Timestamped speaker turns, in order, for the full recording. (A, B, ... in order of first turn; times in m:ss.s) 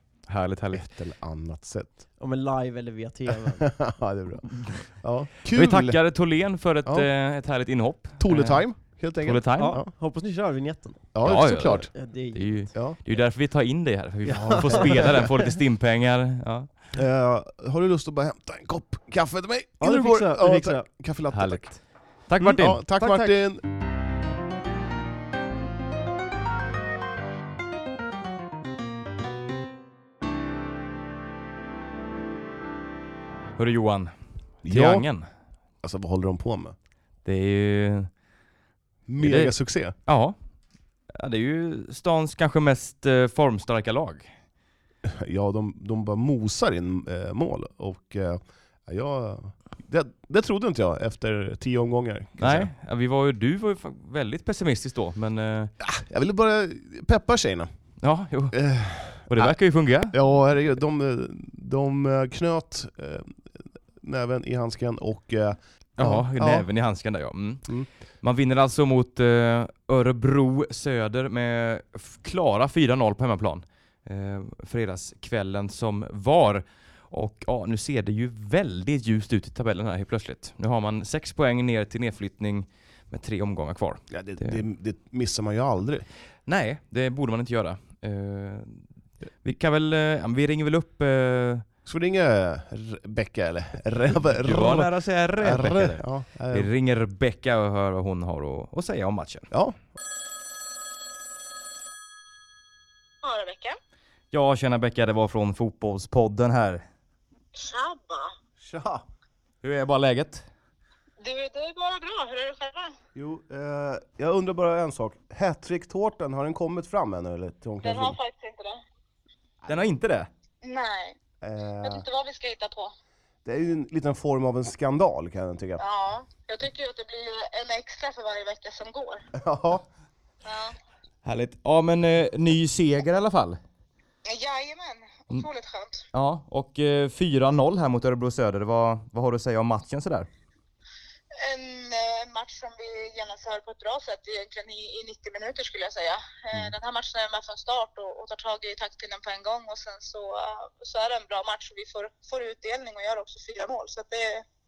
0:00.3-0:01.0 A
0:00.7-0:02.0 B
0:02.2-0:03.7 C
0:03.6-0:06.1 B
0:05.5-0:09.8 A
0:06.8-0:07.1 B
0:08.2-0:09.9 B
0:09.6-0:11.2 C
0:11.1-0:11.9 B
0:11.2-0:16.7 A
0:11.9-0:12.7 C
0:12.7-0:13.0 B
0:14.2-0:15.5 C
0:14.7-0:15.1 B
0:16.9-0:21.7 B
0:19.8-0:20.9 C
0:21.3-0:22.8 A
0:22.4-0:23.4 C
0:22.4-0:23.6 B
0:33.6-0:35.3 A
0:34.6-0:35.1 B
0:35.8-0:36.8 B
0:37.2-0:38.1 A
0:39.1-0:40.0 B
0:39.2-0:40.4 A
0:41.1-0:44.3 A
0:45.0-0:52.7 B
0:52.4-0:55.7 A
0:55.8-0:57.7 B
0:58.0-1:00.2 A
0:58.5-0:59.6 B
1:00.1-1:06.7 B
1:06.0-1:24.6 A
1:24.1-1:26.1 B
1:26.5-1:28.8 A
1:29.4-1:31.6 A
1:31.8-1:36.7 B
1:34.3-1:39.5 A
1:39.5-1:39.8 B
1:43.2-1:43.8 D
1:44.3-1:46.8 A
1:47.6-1:48.3 D
1:48.6-1:49.0 B
1:49.6-1:50.4 A
1:51.2-1:53.0 D
1:53.2-1:58.2 B
1:57.8-1:58.8 D
1:59.7-2:00.3 A
2:00.6-2:01.2 D
2:01.4-2:02.0 B
2:01.8-2:02.9 D
2:03.4-2:05.8 B
2:05.8-2:09.3 D
2:09.4-2:09.8 B
2:10.4-2:10.8 D
2:11.2-2:13.6 A
2:14.3-2:16.0 D
2:16.1-2:20.3 A
2:21.4-2:34.5 D